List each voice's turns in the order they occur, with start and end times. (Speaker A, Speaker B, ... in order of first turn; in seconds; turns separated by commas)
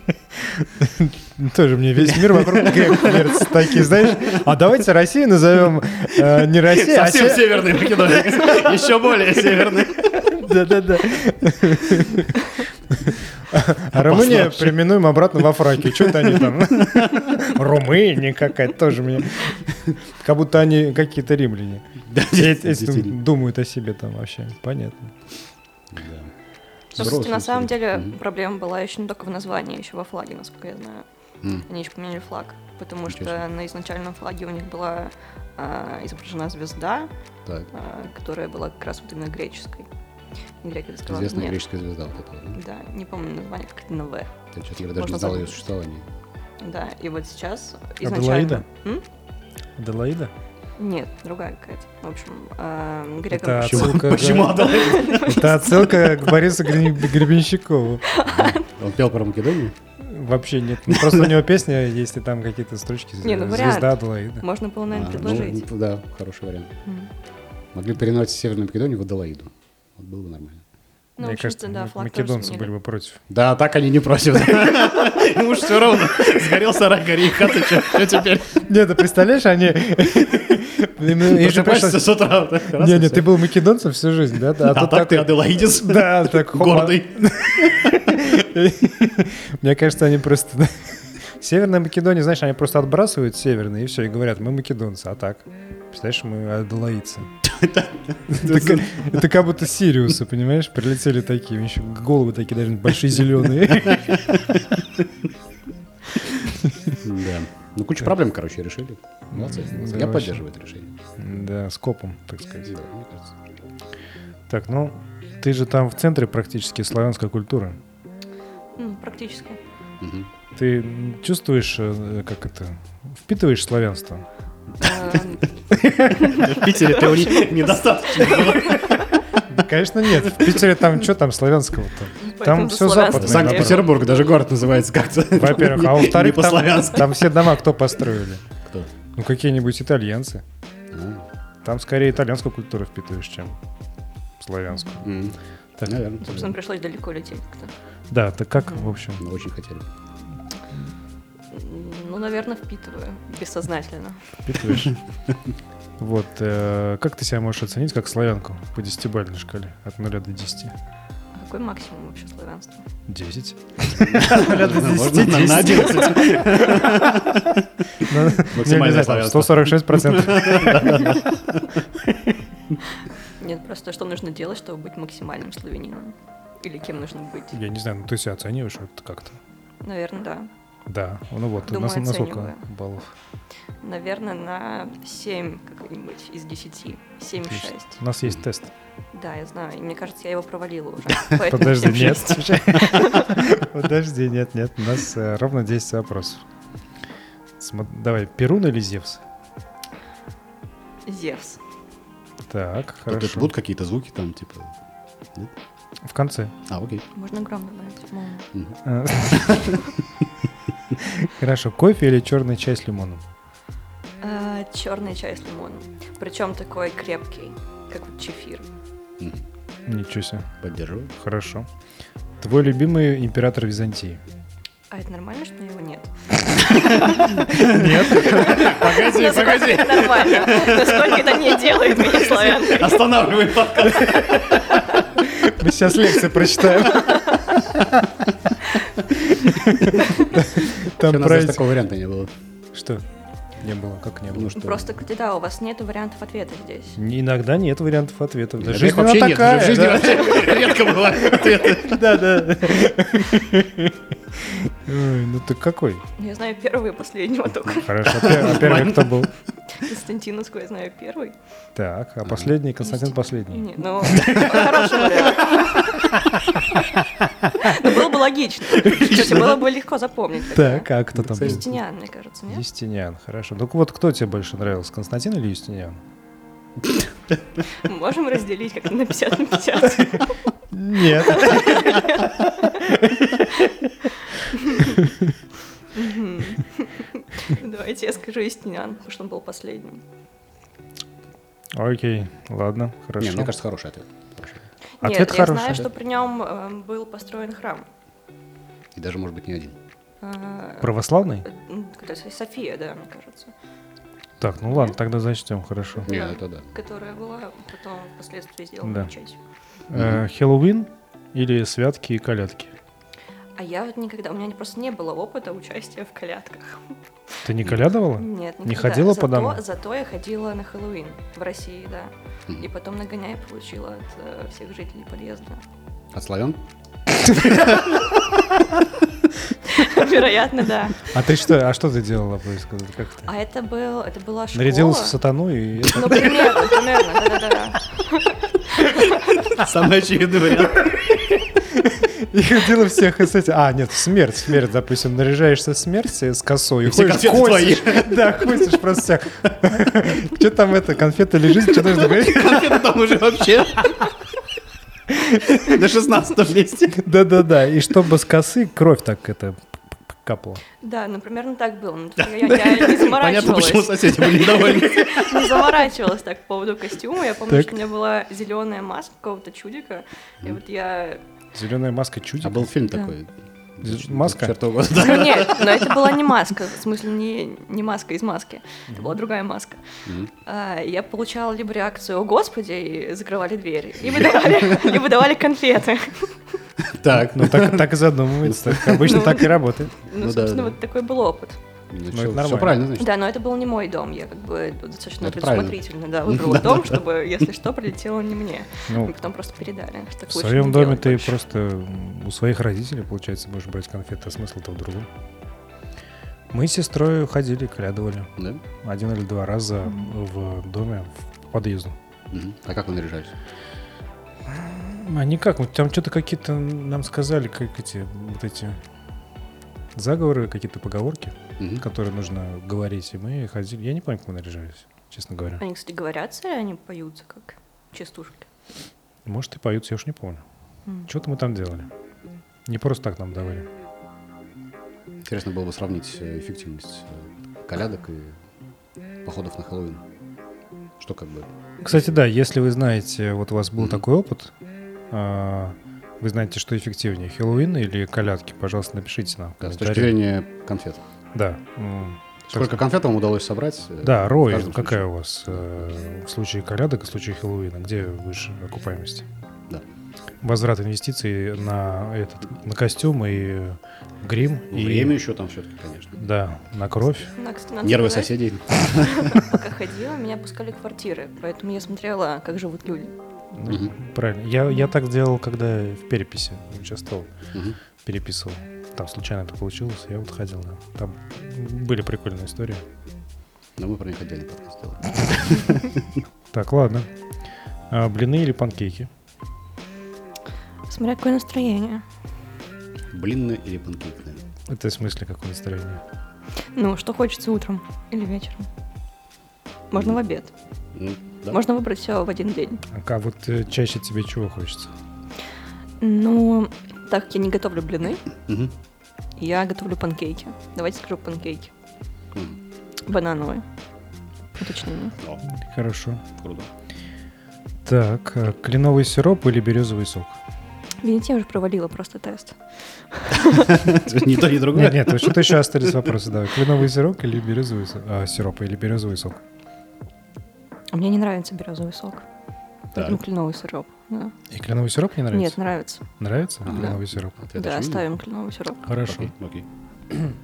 Speaker A: 0.4-8.7, Speaker B: 2.0-4.4, Speaker B: 6.4-10.2, Speaker A: 10.0-25.1, Speaker B: 14.0-14.8, Speaker B: 15.9-17.5, Speaker B: 22.1-23.1, Speaker B: 25.9-26.3, Speaker B: 26.9-28.1, Speaker C: 26.9-31.0, Speaker C: 31.7-37.1, Speaker B: 33.1-33.4, Speaker C: 37.7-39.9, Speaker C: 40.6-41.6, Speaker B: 41.1-42.6, Speaker C: 42.5-44.3, Speaker B: 44.5-46.0, Speaker C: 45.0-45.6, Speaker C: 46.6-49.0, Speaker A: 48.0-48.6, Speaker A: 49.8-50.3, Speaker C: 50.8-56.1, Speaker A: 53.3-58.1, Speaker B: 53.6-55.7, Speaker C: 58.0-58.6, Speaker B: 58.2-59.8, Speaker A: 60.0-64.5, Speaker B: 60.9-61.3, Speaker C: 63.2-65.7, Speaker B: 64.9-66.7, Speaker B: 67.7-70.6, Speaker C: 71.2-72.7, Speaker A: 71.2-73.2, Speaker B: 73.3-78.6, Speaker A: 78.5-82.1, Speaker B: 81.2-83.3, Speaker A: 82.6-97.3, Speaker B: 84.6-88.0, Speaker B: 97.4-99.2, Speaker A: 98.3-104.5, Speaker B: 103.8-105.0, Speaker B: 106.9-110.9, Speaker A: 109.3-110.4, Speaker A: 111.2-112.7, Speaker B: 112.7-113.3, Speaker A: 114.5-117.8, Speaker C: 118.8-119.6, Speaker B: 120.0-120.3, Speaker A: 120.5-124.3, Speaker C: 124.8-125.4, Speaker A: 125.7-126.1, Speaker B: 126.0-129.4, Speaker C: 126.2-129.1, Speaker A: 129.5-133.9, Speaker C: 132.3-133.8, Speaker B: 133.1-137.2, Speaker A: 135.3-138.4, Speaker A: 139.1-140.4, Speaker B: 140.9-141.2, Speaker A: 141.6-143.6, Speaker A: 144.4-145.2, Speaker B: 145.0-146.6, Speaker A: 145.8-146.1, Speaker C: 146.2-147.7, Speaker A: 148.1-149.2, Speaker C: 148.6-148.9, Speaker B: 149.2-149.9, Speaker C: 151.5-154.8, Speaker A: 154.5-155.0, Speaker A: 156.0-160.7, Speaker C: 161.3-162.8, Speaker A: 163.1-167.4, Speaker B: 164.0-171.8, Speaker A: 168.0-171.2, Speaker C: 173.4-177.5, Speaker A: 177.5-179.4, Speaker C: 179.8-180.5, Speaker A: 180.9-183.1, Speaker C: 181.6-182.6, Speaker C: 183.8-188.0, Speaker A: 187.4-188.7, Speaker C: 189.1-193.4, Speaker A: 191.4-196.4, Speaker A: 197.6-199.2, Speaker C: 201.1-201.6, Speaker A: 202.5-203.5, Speaker B: 203.1-204.8, Speaker A: 206.0-206.6, Speaker B: 206.7-207.0, Speaker C: 207.1-208.5, Speaker A: 208.8-209.8, Speaker B: 209.3-209.7, Speaker A: 210.9-213.2, Speaker C: 214.2-218.7, Speaker A: 219.9-220.5, Speaker B: 220.6-221.1, Speaker A: 221.1-221.7, Speaker A: 222.4-224.2, Speaker C: 224.9-233.1, Speaker A: 227.5-228.8, Speaker B: 227.5-234.9, Speaker A: 235.2-238.3, Speaker C: 237.0-237.6, Speaker A: 239.1-241.7, Speaker B: 241.0-242.3, Speaker A: 242.7-243.0, Speaker A: 243.6-244.8, Speaker B: 244.3-244.8, Speaker C: 244.6-247.0, Speaker A: 246.9-256.0, Speaker B: 248.6-252.0, Speaker C: 256.2-259.0, Speaker A: 257.9-259.3, Speaker B: 258.2-259.0, Speaker C: 259.7-261.4, Speaker A: 261.8-264.4, Speaker C: 262.8-266.1, Speaker A: 266.1-266.9, Speaker A: 267.4-267.8, Speaker C: 267.6-270.9, Speaker A: 270.5-271.7, Speaker B: 271.1-271.7, Speaker C: 271.4-272.6, Speaker A: 272.5-276.0, Speaker C: 277.7-280.4, Speaker A: 280.7-282.0, Speaker C: 281.2-283.7, Speaker C: 284.5-285.0, Speaker A: 285.0-285.3, Speaker C: 285.9-290.0, Speaker A: 291.7-293.5, Speaker B: 293.2-294.7, Speaker C: 295.0-297.9, Speaker A: 295.0-295.9, Speaker B: 298.9-299.8, Speaker C: 300.2-300.9, Speaker A: 300.8-301.4, Speaker C: 301.4-303.5, Speaker A: 304.4-306.1, Speaker C: 304.7-304.9, Speaker C: 306.0-309.4, Speaker B: 306.1-306.7, Speaker A: 308.8-309.1, Speaker A: 309.9-312.7, Speaker B: 309.9-310.2, Speaker C: 313.6-317.4, Speaker A: 317.4-319.6, Speaker C: 318.1-325.6, Speaker B: 326.1-326.6, Speaker B: 327.2-328.0, Speaker C: 329.6-331.1, Speaker A: 331.0-333.3, Speaker C: 333.3-335.2, Speaker A: 334.5-336.6, Speaker C: 335.8-339.6, Speaker B: 339.4-341.0, Speaker A: 341.5-352.8, Speaker B: 346.9-348.6, Speaker B: 351.8-354.0, Speaker A: 355.1-355.4, Speaker B: 355.4-357.0, Speaker A: 356.9-360.6, Speaker C: 360.8-371.2, Speaker B: 362.2-365.8, Speaker A: 367.5-367.7, Speaker A: 371.5-372.7, Speaker B: 372.4-376.1, Speaker A: 373.8-374.5, Speaker C: 374.9-379.8, Speaker A: 378.9-379.2, Speaker B: 380.0-380.3, Speaker C: 380.4-386.4, Speaker B: 386.8-389.4, Speaker A: 387.1-389.9, Speaker C: 388.9-391.6, Speaker B: 390.1-390.8, Speaker B: 391.9-393.1, Speaker A: 392.1-392.8, Speaker C: 393.0-401.4, Speaker B: 395.2-397.0, Speaker A: 398.9-399.1, Speaker A: 400.3-405.1, Speaker A: 406.5-412.0, Speaker B: 408.4-408.6, Speaker B: 412.3-413.3, Speaker A: 414.4-418.8, Speaker A: 419.9-425.6, Speaker B: 421.6-421.9, Speaker C: 425.6-428.5, Speaker A: 429.2-430.4, Speaker A: 431.1-431.9, Speaker A: 432.6-433.7, Speaker B: 435.2-438.4, Speaker B: 439.2-440.0, Speaker B: 441.0-441.5, Speaker A: 441.8-444.5, Speaker A: 445.1-450.1, Speaker B: 449.6-451.0, Speaker A: 451.4-452.9, Speaker B: 452.5-455.1, Speaker A: 454.0-459.2, Speaker A: 460.4-465.2, Speaker B: 464.7-466.2, Speaker A: 466.2-467.3, Speaker C: 467.4-473.1, Speaker B: 467.8-469.4, Speaker A: 473.5-477.3, Speaker B: 473.6-473.9, Speaker A: 478.0-482.9, Speaker B: 483.8-486.2, Speaker A: 486.5-487.1, Speaker A: 487.9-489.1, Speaker C: 490.9-492.0, Speaker B: 493.1-494.4, Speaker A: 494.7-496.0, Speaker C: 496.7-498.7, Speaker C: 499.9-500.5, Speaker B: 500.9-501.6, Speaker C: 501.5-502.8, Speaker A: 502.9-504.9, Speaker C: 506.0-508.2, Speaker B: 508.5-508.7, Speaker C: 509.4-511.7, Speaker C: 513.1-513.6, Speaker C: 514.5-515.2, Speaker A: 515.5-516.2, Speaker B: 516.4-516.7, Speaker A: 517.9-520.4, Speaker C: 521.0-522.6, Speaker C: 523.1-523.8, Speaker B: 523.5-525.9, Speaker A: 524.7-529.4, Speaker C: 530.9-532.2, Speaker C: 532.9-534.4, Speaker A: 534.5-535.6, Speaker C: 535.3-536.0, Speaker A: 536.2-537.4, Speaker B: 536.6-538.1, Speaker C: 536.7-537.0, Speaker C: 537.5-538.9, Speaker A: 538.9-539.3, Speaker B: 539.0-539.7